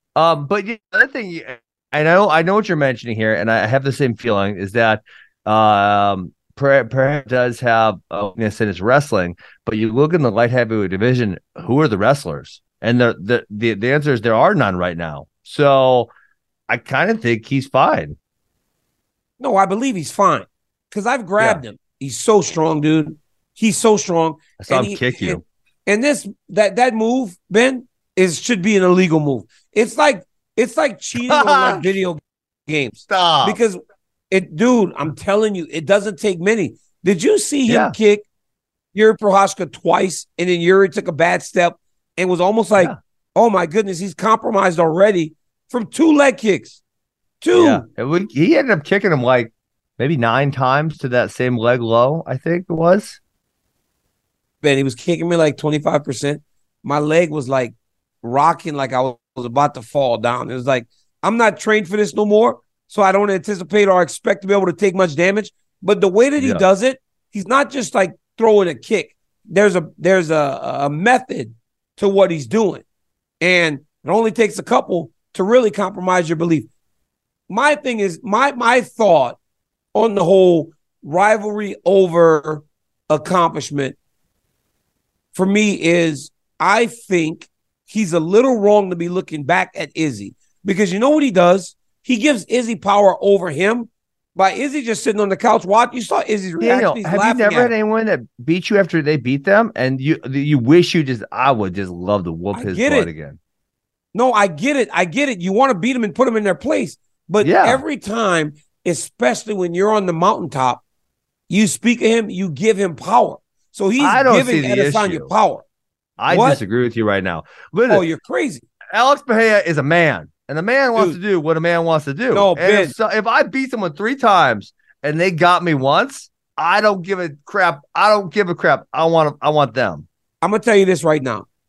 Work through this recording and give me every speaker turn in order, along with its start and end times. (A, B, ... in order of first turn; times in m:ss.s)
0:00.2-0:16.1 A
0:16.7-0:18.2 A
0:19.4-0:33.8 B
0:24.6-0:25.4 A
0:31.2-0:31.8 A
0:33.0-0:33.6 A
0:34.3-0:38.2 B
0:37.7-0:37.9 A
0:38.9-0:46.8 B
0:47.4-0:47.8 B
0:47.5-0:53.2 A
0:54.6-1:12.8 B
1:06.4-1:06.6 A
1:13.4-1:16.7 B
1:17.5-1:19.4 B
1:19.9-1:23.9 B
1:25.3-1:37.7 B
1:36.6-1:43.4 A
1:42.5-1:43.1 B
1:44.1-1:50.8 B
1:47.4-1:47.8 A
1:51.5-1:55.6 B
1:54.0-1:55.3 A
1:56.2-1:58.0 A
1:56.3-1:56.6 B
1:57.9-1:58.7 B
1:58.9-2:10.0 A
2:02.3-2:02.9 B
2:10.4-2:11.5 B